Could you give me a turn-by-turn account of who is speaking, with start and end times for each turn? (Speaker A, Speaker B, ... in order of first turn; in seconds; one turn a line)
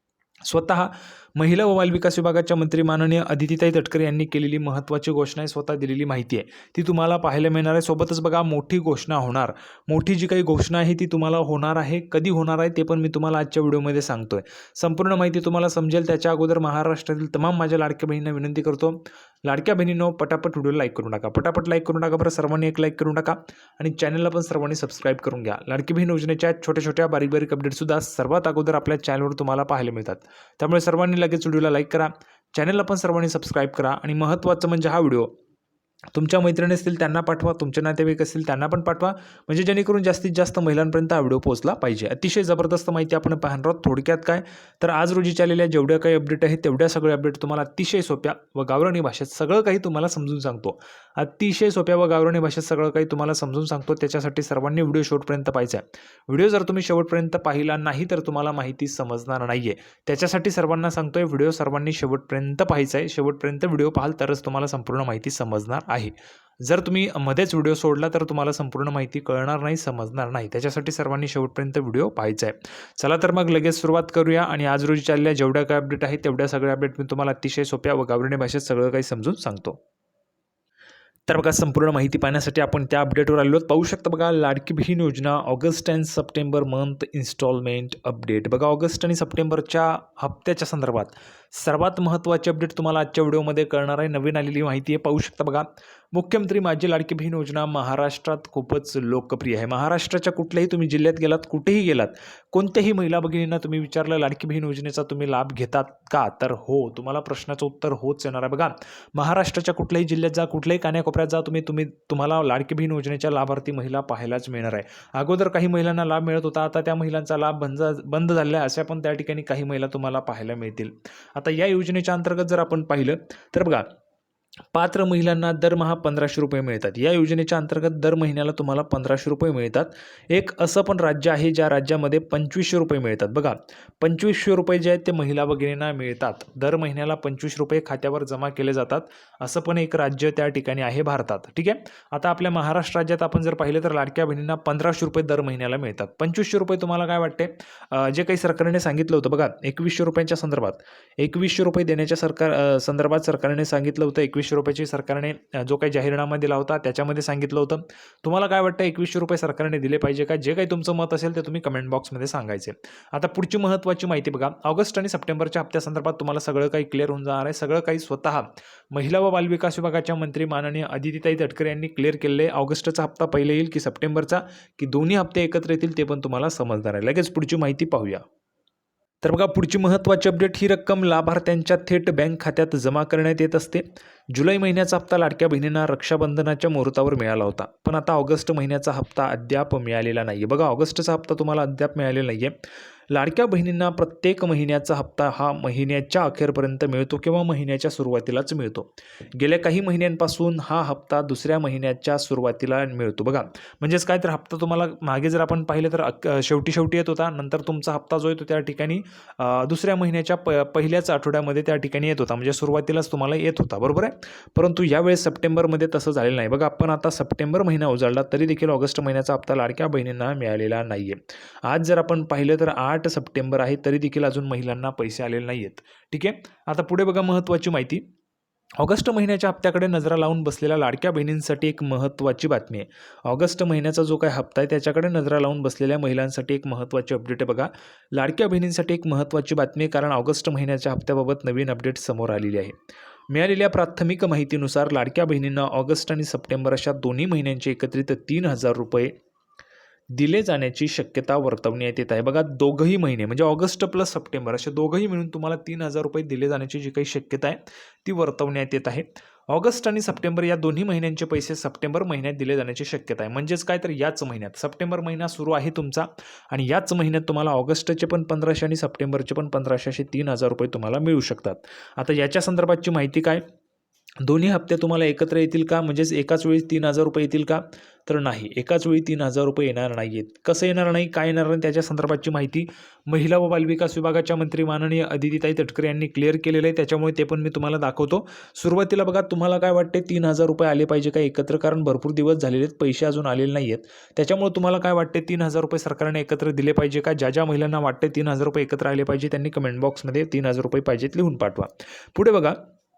Speaker A: 0.4-35.3
Speaker A: 36.1-79.8
Speaker A: 81.3-123.8
Speaker A: 124.7-178.2
Speaker A: 179.2-192.6
Speaker A: 193.1-228.0
Speaker A: 228.8-242.7
Speaker A: 243.3-249.1
Speaker A: 250.1-273.4
Speaker A: 274.2-302.6